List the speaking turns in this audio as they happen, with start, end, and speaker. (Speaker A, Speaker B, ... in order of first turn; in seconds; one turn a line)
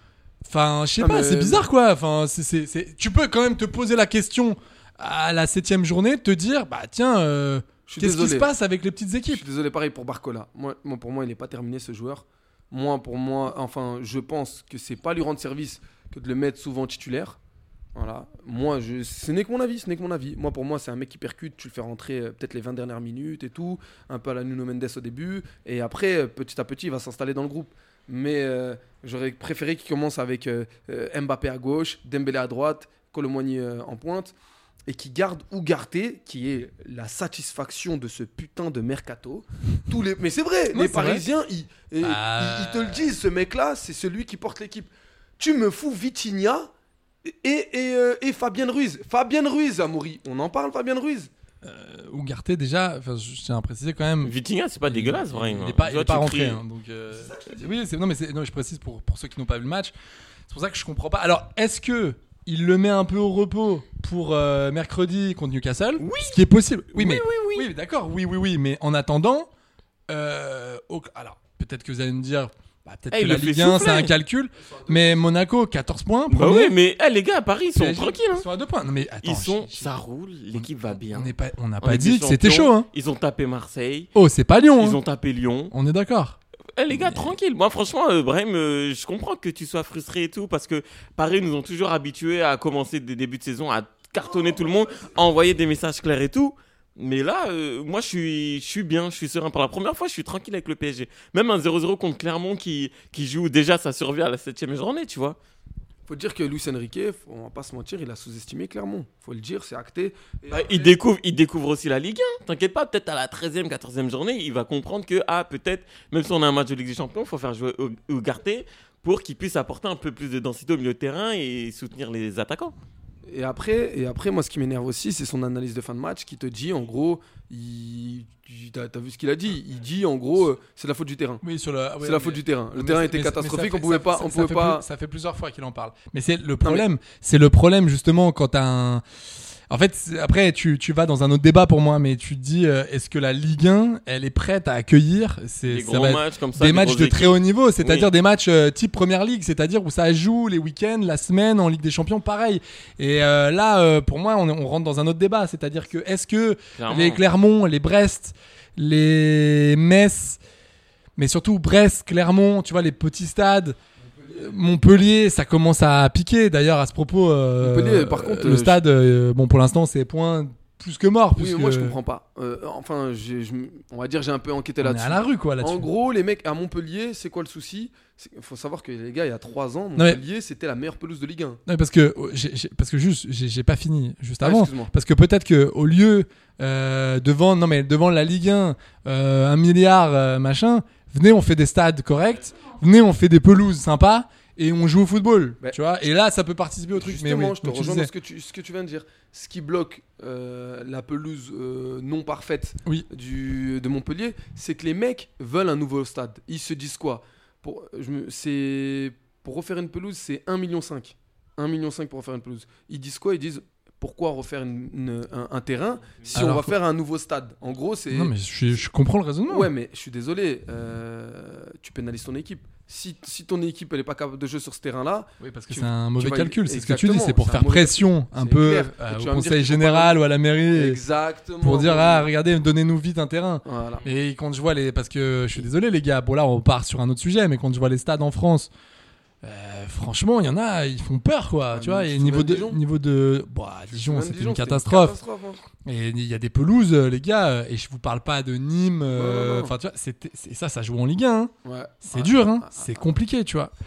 Speaker A: 0.4-9.4
Speaker B: 1.0-1.7
Speaker B: 7.8-8.5
Speaker B: 9.3-17.4
Speaker B: 17.9-34.3
Speaker B: 34.9-46.7
Speaker A: 40.7-41.2
Speaker A: 42.0-43.1
Speaker B: 47.2-51.3
Speaker A: 51.6-54.3
Speaker C: 54.2-56.6
Speaker A: 54.9-59.9
Speaker B: 57.2-57.7
Speaker A: 60.5-69.5
Speaker C: 66.0-66.4
Speaker C: 66.9-67.7
Speaker A: 70.1-76.8
Speaker C: 73.1-74.2
Speaker C: 76.3-78.5
Speaker A: 77.7-79.9
Speaker C: 79.2-84.1
Speaker A: 80.5-82.9
Speaker A: 84.1-85.0
Speaker C: 84.8-85.7
Speaker A: 85.7-86.4
Speaker C: 86.8-105.4
Speaker A: 86.9-87.3
Speaker B: 106.1-110.9
Speaker C: 110.5-122.7
Speaker B: 123.3-131.4
Speaker A: 131.4-139.0
Speaker B: 132.0-134.8
Speaker A: 139.7-160.4
Speaker C: 145.7-148.1
Speaker C: 156.8-157.2
Speaker A: 161.2-163.8
Speaker B: 164.1-164.4
Speaker A: 164.3-172.0
Speaker B: 167.6-168.8
Speaker B: 171.4-181.6
Speaker A: 174.8-175.9
Speaker A: 179.9-180.2
Speaker A: 181.7-198.1
Speaker B: 184.4-184.9
Speaker B: 196.9-218.3
Speaker A: 216.3-216.8
Speaker A: 218.1-219.7
Speaker B: 219.5-232.3
Speaker A: 225.4-231.0
Speaker A: 231.6-238.7
Speaker B: 233.6-234.0
Speaker A: 239.4-245.2
Speaker B: 241.7-242.8
Speaker B: 243.9-245.6
Speaker A: 245.8-251.5
Speaker B: 249.1-249.7
Speaker B: 251.6-252.9
Speaker A: 252.0-253.7